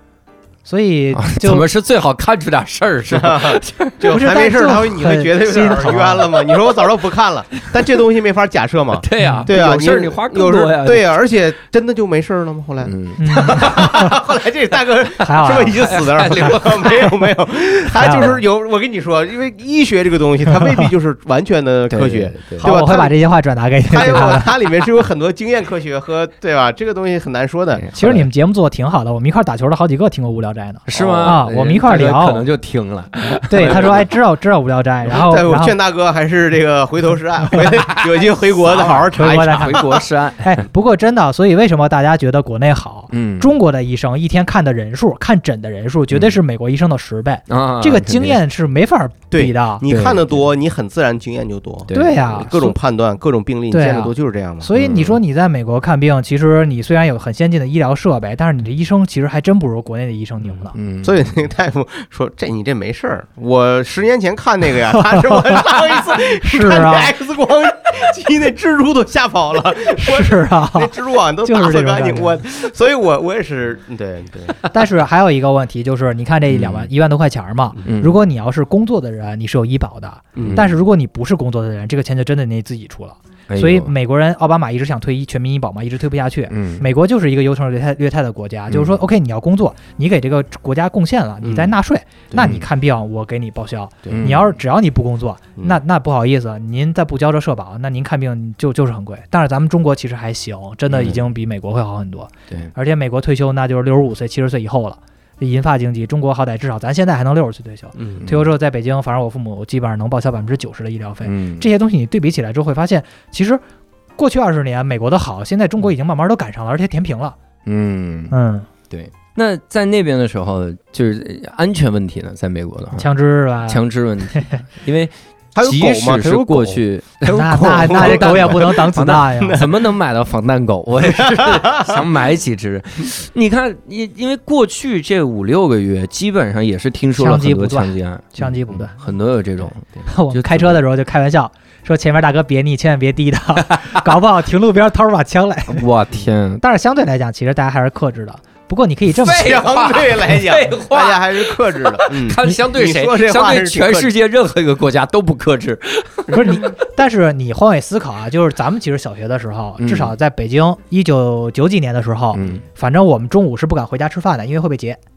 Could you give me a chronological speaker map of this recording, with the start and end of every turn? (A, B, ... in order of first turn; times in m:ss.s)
0:00.6-0:01.7 A
0:01.2-0:04.1 B
0:03.1-0:23.1 C
0:04.1-0:06.3 A
0:09.0-0:11.1 B
0:09.2-0:09.5 A
0:12.8-0:13.9 B
0:13.2-0:14.2 A
0:15.2-0:15.8 A
0:15.7-0:17.3 B
0:18.0-0:18.4 A
0:20.6-0:20.8 A
0:21.9-0:22.8 B
0:22.6-0:24.5 A
0:23.9-0:27.9 C
0:27.8-0:28.3 B
0:27.9-0:32.4 A
0:30.9-0:34.1 B
0:31.0-0:31.4 C
0:33.5-0:35.8 A
0:33.6-0:34.1 C
0:35.1-0:40.0 C
0:37.8-0:40.6 B
0:39.1-0:49.8 A
0:43.1-0:43.5 B
0:47.5-0:48.4 B
0:49.3-0:54.7 C
0:49.9-0:50.4 B
0:51.9-0:52.4 B
0:51.9-0:52.8 A
0:53.7-1:00.8 A
0:54.8-0:55.2 B
1:00.7-1:01.2 B
1:01.0-1:14.6 C
1:05.2-1:05.7 A
1:06.4-1:07.1 A
1:10.0-1:10.9 A
1:11.4-1:12.4 A
1:14.7-1:53.6 A
1:16.5-1:16.9 B
1:17.8-1:18.2 B
1:20.4-1:20.7 C
1:20.4-1:20.7 B
1:23.5-1:23.9 B
1:26.5-1:26.8 B
1:31.4-1:31.7 C
1:34.1-1:34.3 C
1:34.1-1:34.5 B
1:48.0-1:48.2 C
1:51.2-1:51.7 B
1:54.2-1:57.4 A
1:57.7-1:58.3 B
1:58.3-1:58.7 A
1:58.9-2:03.1 B
2:03.0-2:04.6 A
2:03.6-2:20.8 B
2:05.6-2:06.8 C
2:07.3-2:09.6 A
2:07.3-2:09.8 C
2:11.1-2:12.0 C
2:17.2-2:19.0 A
2:20.1-2:25.9 A
2:25.7-2:26.6 B
2:26.6-2:29.6 A
2:29.1-2:36.7 B
2:29.3-2:34.1 C
2:36.3-2:45.0 A
2:39.8-2:40.1 B
2:42.3-2:42.6 B